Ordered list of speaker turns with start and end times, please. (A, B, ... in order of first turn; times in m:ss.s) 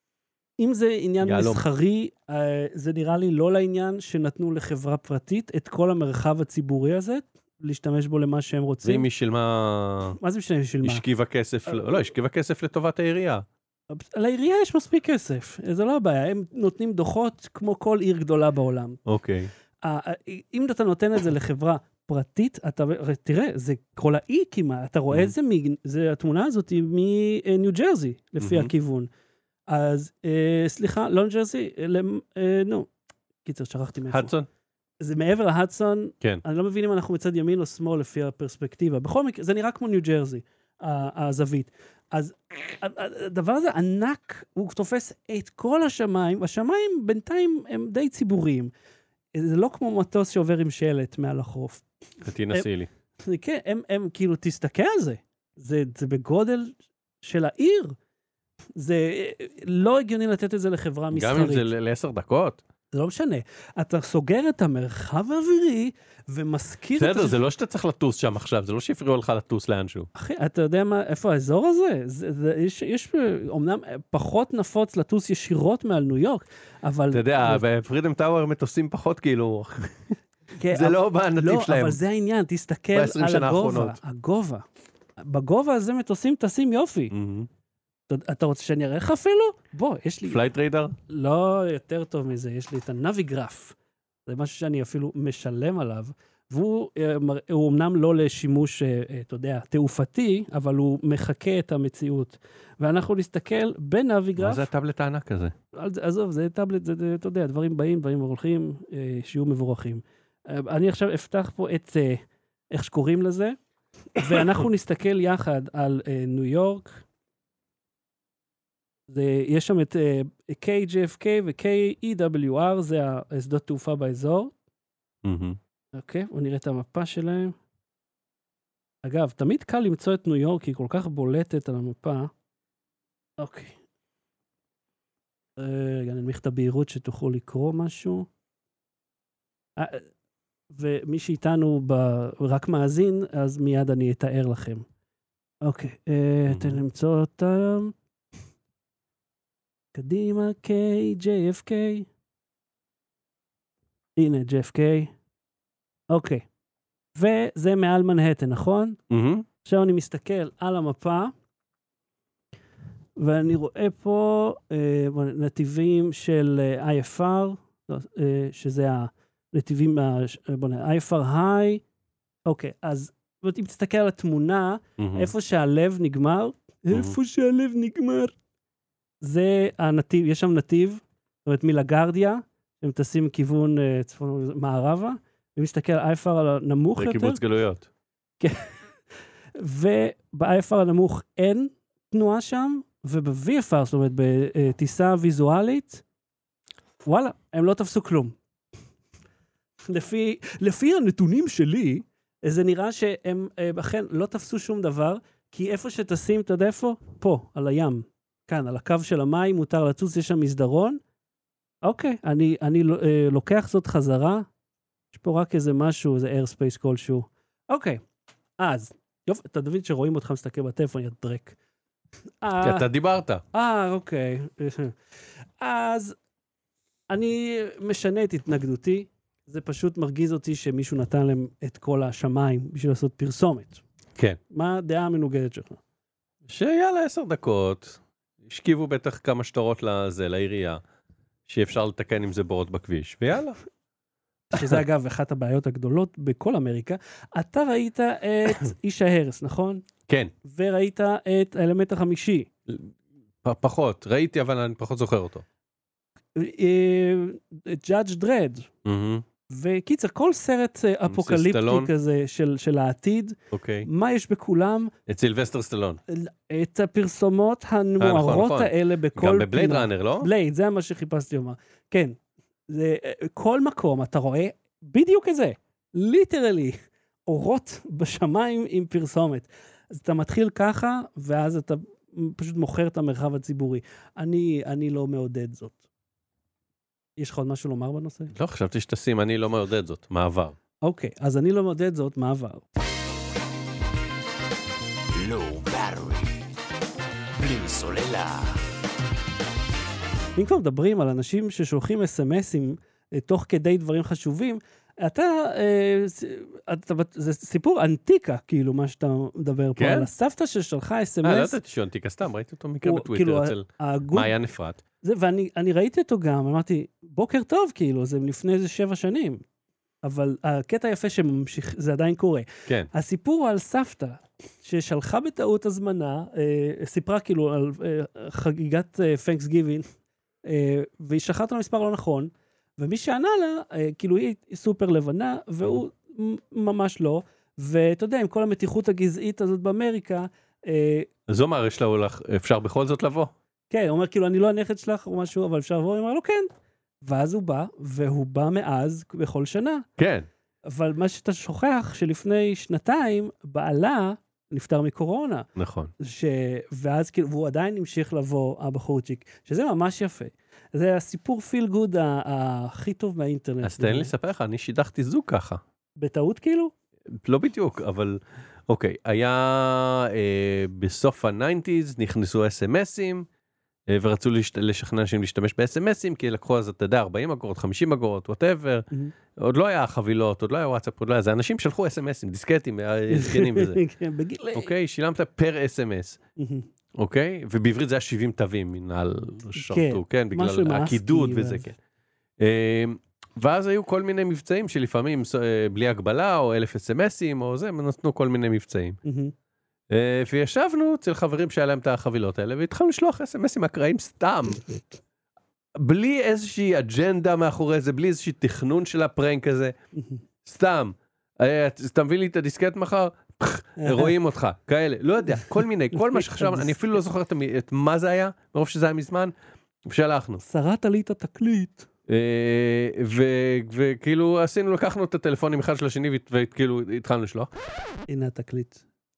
0:00.6-0:09.0 A
0:01.2-0:01.6 B
0:08.8-0:10.2 B
0:10.2-0:11.0 A
0:10.8-0:13.4 B
0:13.9-0:19.0 A
0:19.0-0:19.5 B
0:19.8-0:29.1 A
0:28.4-0:28.7 B
0:29.7-0:32.9 A
0:33.4-0:34.3 A
0:34.1-0:34.5 B
0:35.0-0:48.7 A
0:49.3-0:51.8 A
0:52.2-0:52.9 B
0:53.2-0:58.0 A
0:58.8-1:01.7 A
1:01.1-1:02.6 B
1:02.9-1:07.4 A
1:07.0-1:10.1 B
1:10.1-1:17.6 A
1:17.1-1:20.1 B
1:20.6-1:24.6 A
1:20.7-1:22.0 B
1:22.9-1:24.0 B
1:25.2-1:27.1 A
1:27.1-1:27.5 B
1:28.1-1:30.5 A
1:30.2-1:31.0 B
1:31.1-1:33.8 A
1:34.3-1:44.7 A
1:44.4-1:45.5 B
1:45.7-1:53.6 A
1:54.2-1:57.0 A
1:59.1-2:04.5 A
2:05.2-2:05.6 B
2:05.9-2:07.6 A
2:09.0-2:12.3 A
2:13.4-2:13.8 A
2:15.6-2:18.3 A
2:19.8-2:20.0 A
2:20.7-2:24.8 A
2:25.6-2:27.9 A
2:26.5-2:26.8 B
2:29.9-2:32.1 A
2:34.2-2:35.1 A
2:36.1-2:36.4 A
2:37.1-2:39.0 A
2:39.1-2:39.4 B
2:39.6-2:41.3 A
2:43.2-2:51.8 A
2:52.4-2:58.3 A
2:55.0-2:55.3 B
2:56.9-2:57.2 B
2:59.2-3:07.4 A
3:07.0-3:07.9 B
3:08.4-3:08.7 A
3:09.6-3:16.0 A
3:17.0-3:18.4 A
3:19.8-3:31.0 A
3:31.8-3:34.5 A
3:35.1-3:38.0 A
3:38.6-3:41.6 A
3:42.4-3:42.9 A
3:42.6-3:43.4 B
3:43.5-3:44.9 A
3:45.6-3:46.2 A
3:47.1-3:53.8 A
3:54.5-3:55.8 A
3:56.4-4:00.8 B
4:01.4-4:03.6 B
4:04.5-4:09.8 A
4:10.4-4:12.5 A
4:12.7-4:15.4 B
4:16.3-4:18.7 A
4:18.8-4:19.2 B
4:19.5-4:24.9 A
4:21.0-4:21.9 B
4:23.5-4:23.9 B
4:25.1-4:26.0 B
4:26.1-4:32.2 A
4:28.0-4:30.3 B
4:32.7-4:45.8 A
4:47.2-4:48.3 A
4:48.3-4:50.6 B
4:50.8-4:52.6 A
4:55.1-4:56.5 C
4:57.4-4:58.6 C
5:00.4-5:11.6 A
5:09.8-5:10.1 B
5:11.2-5:14.8 B
5:12.8-5:14.3 A
5:15.0-5:19.4 A
5:20.0-5:29.9 A
5:30.4-5:41.1 A
5:41.3-5:43.3 B
5:43.7-5:46.5 A
5:47.0-5:49.9 A
5:50.0-5:50.3 B
5:50.7-5:55.5 A
5:55.6-5:55.9 B
5:56.0-6:04.1 A
6:03.6-6:05.6 B
6:06.0-6:06.7 A
6:07.1-6:13.3 B
6:13.9-6:23.8 B
6:23.1-6:24.7 A
6:24.5-6:26.2 B
6:26.4-6:26.7 A
6:27.0-6:31.7 B
6:29.6-6:31.7 A
6:32.4-6:39.0 B
6:39.0-6:39.3 A
6:39.9-6:44.6 B
6:45.8-6:49.7 B
6:50.0-6:50.2 A
6:50.4-6:59.3 B
6:53.8-6:54.2 A
6:56.0-6:56.8 A
6:59.8-7:00.4 B
7:00.4-7:01.9 A
7:02.1-7:07.5 B
7:08.1-7:08.8 A